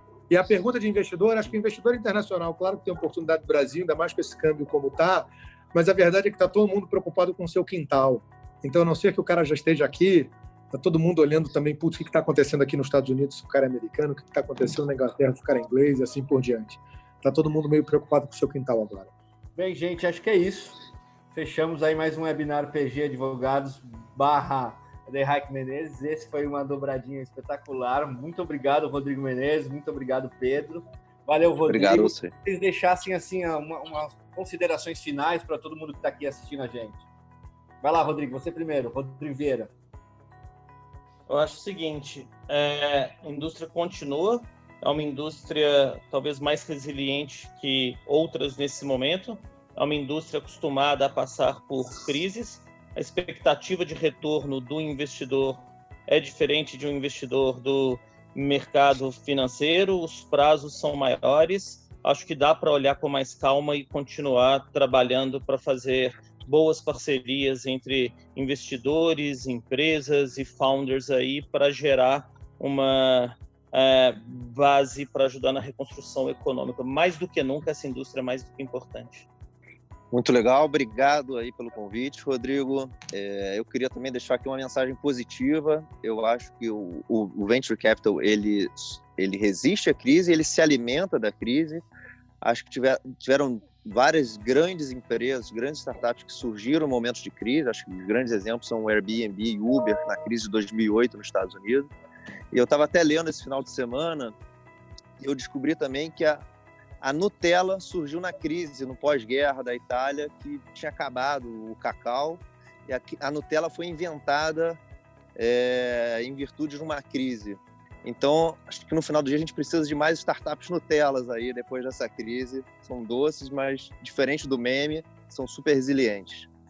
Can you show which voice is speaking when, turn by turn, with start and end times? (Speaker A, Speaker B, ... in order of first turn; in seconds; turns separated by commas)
Speaker A: 0.3-19.1, Speaker B: 19.6-20.8, Speaker B: 21.3-37.0, Speaker C: 31.7-32.3, Speaker B: 37.8-39.7, Speaker D: 41.3-79.3, Speaker C: 80.1-91.9, Speaker C: 92.4-101.9, Speaker C: 102.5-104.3, Speaker C: 105.2-106.5, Speaker C: 107.0-114.8, Speaker C: 115.4-126.5